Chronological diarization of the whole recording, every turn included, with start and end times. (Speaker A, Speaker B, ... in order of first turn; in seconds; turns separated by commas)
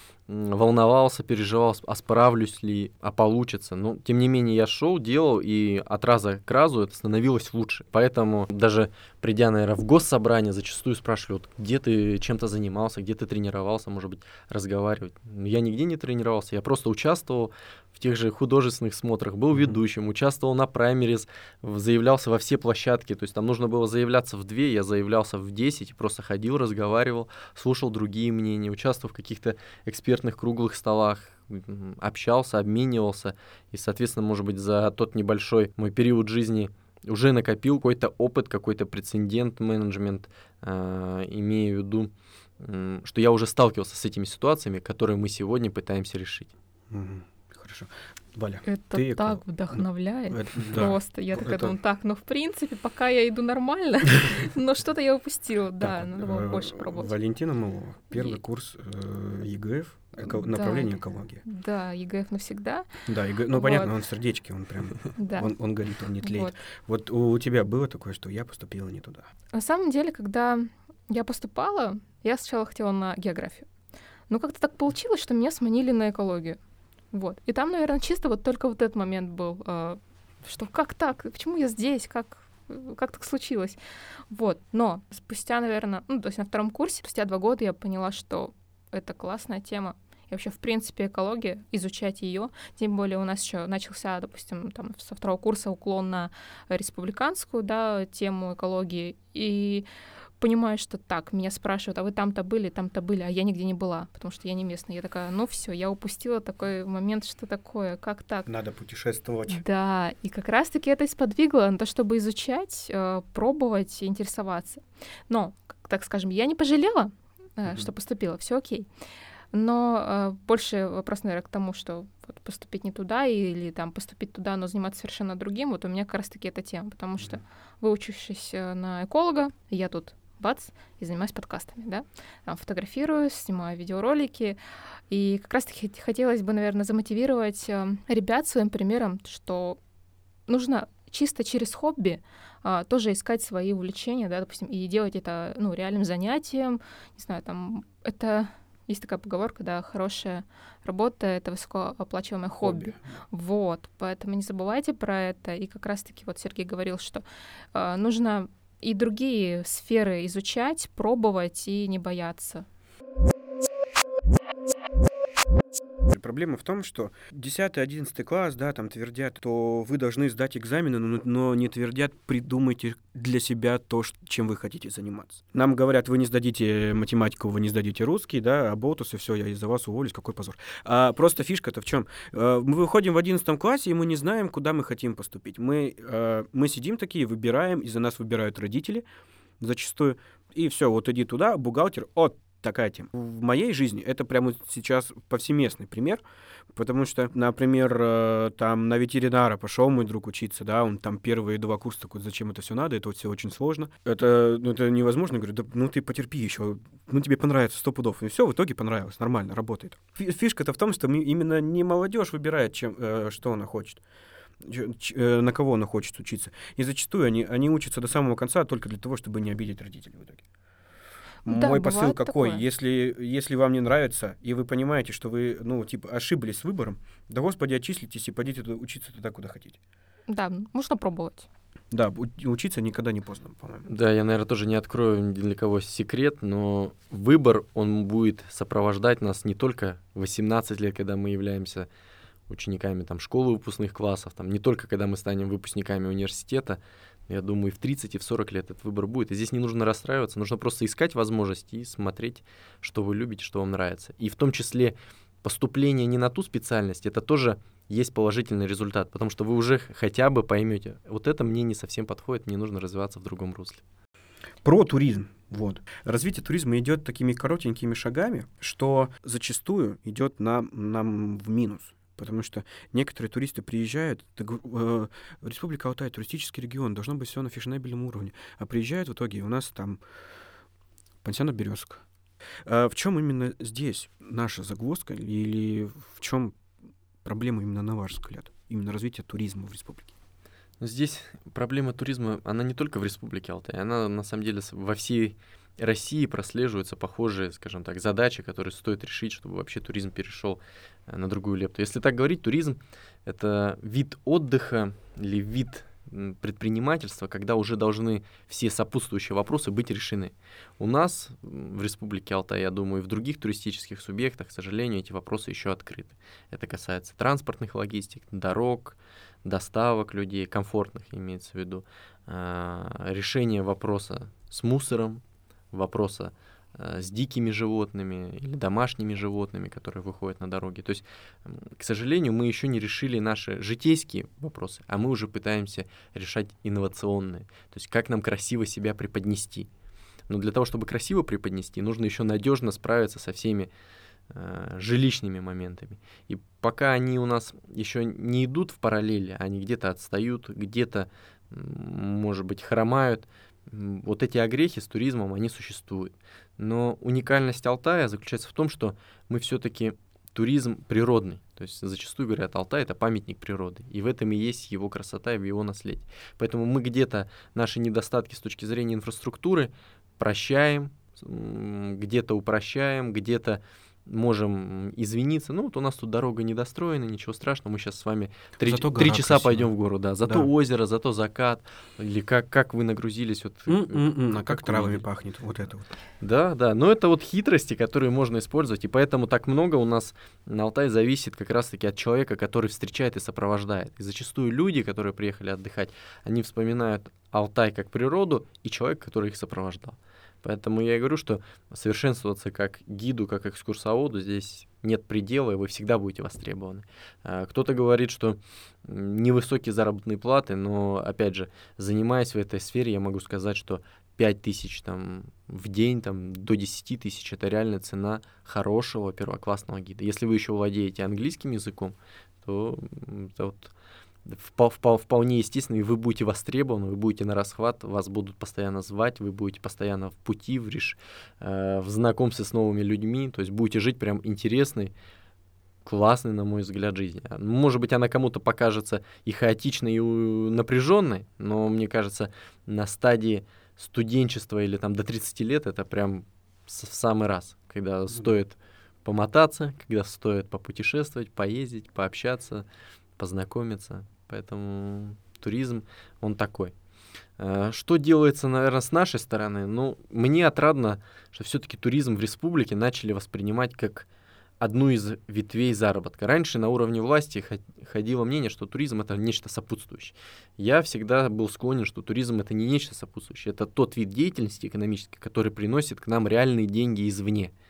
Speaker A: 0.3-46.5, Speaker B: 19.5-19.8, Speaker B: 46.9-51.8, Speaker C: 48.6-57.1, Speaker B: 55.8-61.4, Speaker C: 60.3-62.9, Speaker B: 63.0-69.2, Speaker C: 63.5-63.9, Speaker C: 65.2-65.5, Speaker C: 66.2-66.5, Speaker C: 69.5-73.7, Speaker C: 74.3-76.6, Speaker C: 77.1-83.8, Speaker C: 84.3-99.8, Speaker C: 100.4-108.5, Speaker B: 108.5-109.6, Speaker C: 109.5-118.9, Speaker C: 119.5-134.6, Speaker C: 135.1-139.8, Speaker C: 140.5-162.6, Speaker B: 152.6-153.0, Speaker B: 166.1-189.0, Speaker B: 189.6-196.2, Speaker B: 196.7-214.0, Speaker B: 214.6-220.4, Speaker C: 221.4-222.6, Speaker B: 221.4-229.8, Speaker C: 230.3-231.5, Speaker B: 231.9-233.9, Speaker A: 233.9-241.9, Speaker A: 242.5-263.8, Speaker B: 264.6-280.0, Speaker B: 281.2-282.0, Speaker B: 282.6-286.6, Speaker B: 287.2-290.1, Speaker A: 290.8-325.2, Speaker A: 325.7-339.7, Speaker A: 340.3-343.7, Speaker A: 344.3-385.0, Speaker B: 378.6-379.7, Speaker B: 380.2-380.5, Speaker B: 383.7-385.9, Speaker A: 386.2-423.7, Speaker A: 424.2-434.9, Speaker A: 435.8-452.6, Speaker A: 453.2-456.7, Speaker A: 457.4-464.1, Speaker A: 464.6-477.5